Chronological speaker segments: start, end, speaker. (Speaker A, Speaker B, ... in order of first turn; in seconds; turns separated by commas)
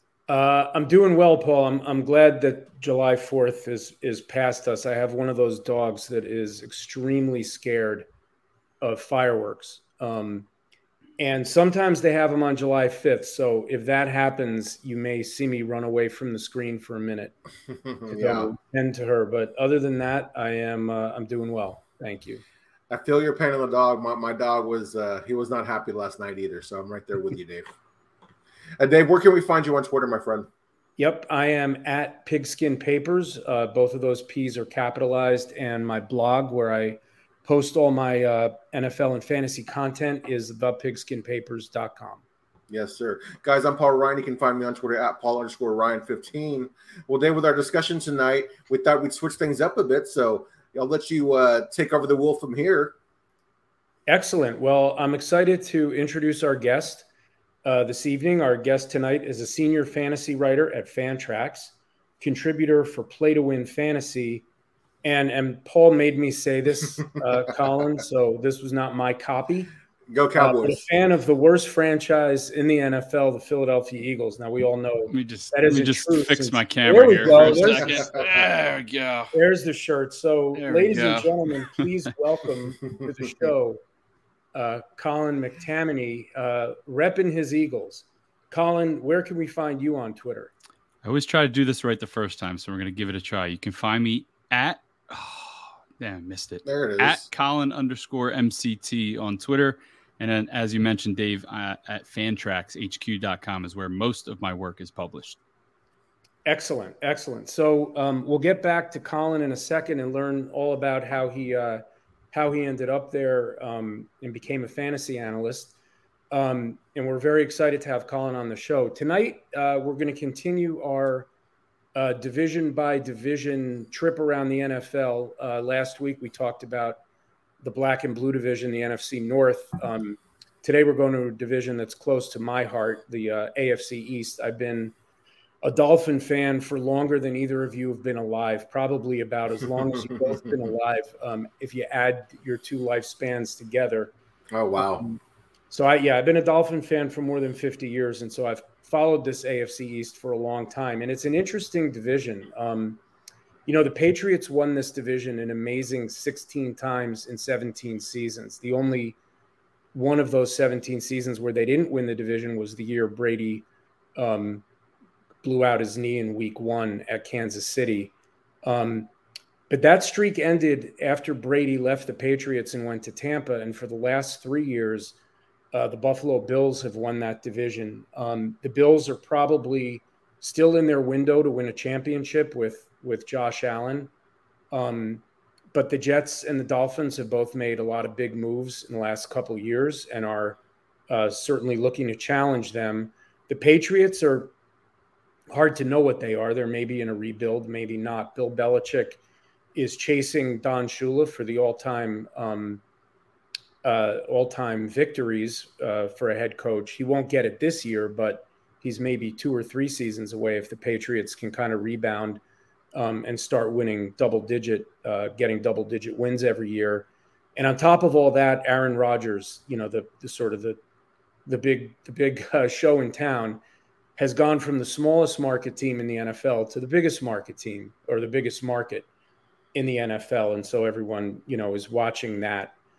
Speaker A: 0.3-8.1, Speaker A: 8.8-10.5, Speaker A: 11.2-17.3, Speaker B: 17.9-18.5, Speaker A: 18.1-22.4, Speaker B: 22.9-27.7, Speaker B: 28.8-30.5, Speaker A: 31.0-42.2, Speaker B: 42.7-53.0, Speaker A: 54.1-57.1, Speaker A: 57.6-64.5, Speaker A: 65.0-69.7, Speaker B: 70.1-70.8, Speaker A: 70.4-78.1, Speaker C: 75.1-79.3, Speaker B: 77.9-78.3, Speaker A: 79.3-83.8, Speaker C: 80.5-81.8, Speaker A: 84.5-90.5, Speaker C: 91.0-105.4, Speaker B: 96.7-97.3, Speaker A: 106.5-115.8, Speaker A: 116.3-121.3, Speaker A: 122.0-127.0, Speaker A: 127.6-134.9, Speaker A: 135.6-144.1, Speaker B: 140.1-140.3, Speaker B: 144.5-145.1, Speaker A: 144.8-145.2, Speaker A: 145.7-153.0, Speaker A: 153.7-159.2, Speaker A: 159.9-164.6, Speaker A: 165.4-168.1, Speaker A: 168.6-169.1, Speaker A: 169.7-175.2, Speaker A: 175.7-184.1, Speaker A: 184.7-190.6, Speaker A: 191.1-194.5, Speaker A: 195.5-199.2, Speaker A: 199.8-202.8, Speaker A: 203.8-212.4, Speaker A: 212.9-220.8, Speaker A: 221.5-223.6, Speaker A: 224.2-229.1, Speaker A: 229.7-232.7